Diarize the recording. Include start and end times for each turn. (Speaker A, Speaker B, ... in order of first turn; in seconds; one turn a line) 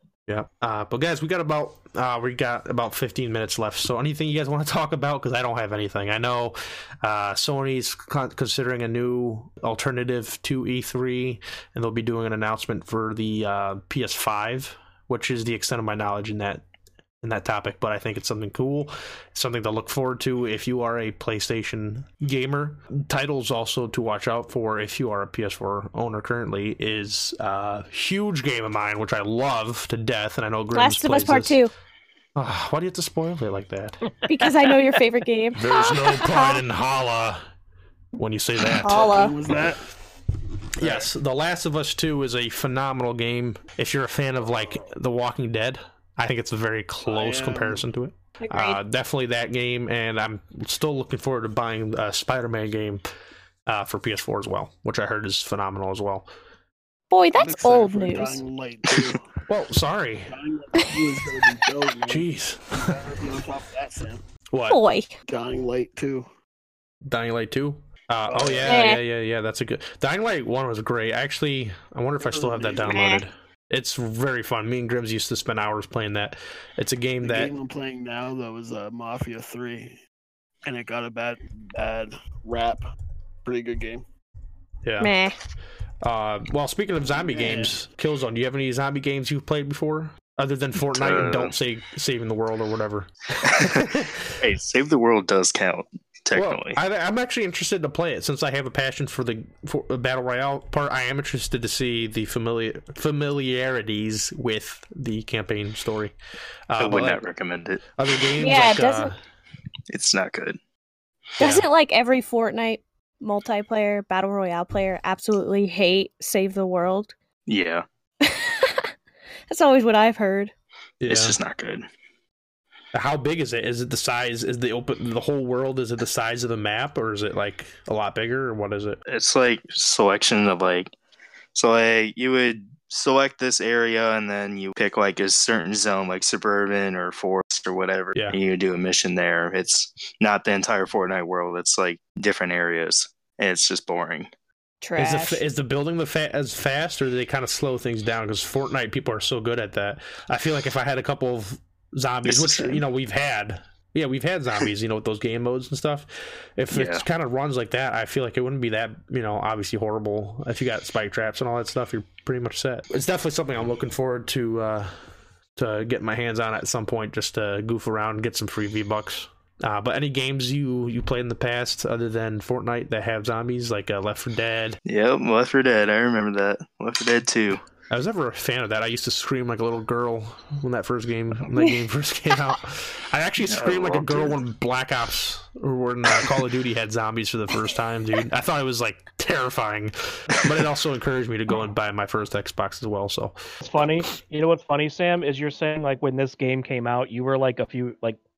Speaker A: 0.3-16.6
Speaker A: 17.2-31.6
Speaker B: 30.7-31.7
Speaker A: 32.3-34.0
Speaker C: 34.2-34.8
Speaker B: 34.3-36.6
Speaker A: 35.5-37.4
Speaker A: 38.1-39.1
Speaker B: 38.8-39.4
Speaker D: 38.9-39.8
Speaker A: 40.8-53.0
Speaker D: 40.8-41.1
Speaker D: 44.4-44.9
Speaker D: 47.0-47.8
Speaker B: 48.4-48.8
Speaker A: 53.7-56.3
Speaker B: 57.1-58.4
Speaker D: 57.3-59.2
Speaker A: 59.5-60.3
Speaker D: 60.3-64.2
Speaker A: 62.1-63.0
Speaker A: 64.5-64.8
Speaker B: 64.7-65.2
Speaker D: 65.3-66.3
Speaker A: 67.0-77.5
Speaker D: 68.3-68.8
Speaker B: 68.6-69.0
Speaker D: 72.2-73.0
Speaker B: 72.8-73.2
Speaker D: 77.2-80.0
Speaker D: 80.6-82.9
Speaker D: 83.4-84.0
Speaker A: 84.8-85.1
Speaker B: 85.0-85.3
Speaker A: 86.0-94.3
Speaker D: 87.1-87.8
Speaker E: 90.8-91.5
Speaker E: 93.5-93.9
Speaker E: 94.4-96.8
Speaker A: 96.3-106.1
Speaker A: 106.7-107.2
Speaker E: 106.8-107.8
Speaker A: 108.0-109.1
Speaker B: 108.4-109.1
Speaker E: 109.9-110.6
Speaker A: 111.4-111.7
Speaker B: 111.4-117.1
Speaker E: 117.5-117.8
Speaker B: 118.2-118.9
Speaker B: 119.5-120.5
Speaker A: 121.0-121.4
Speaker E: 121.1-121.8
Speaker A: 122.9-129.0
Speaker E: 129.1-130.9
Speaker E: 131.5-144.3
Speaker B: 144.8-145.4
Speaker A: 144.9-164.9
Speaker E: 152.2-152.8
Speaker E: 156.7-157.0
Speaker A: 165.6-174.8
Speaker E: 174.8-177.6
Speaker A: 177.9-193.3
Speaker E: 183.4-184.4
Speaker C: 193.6-198.2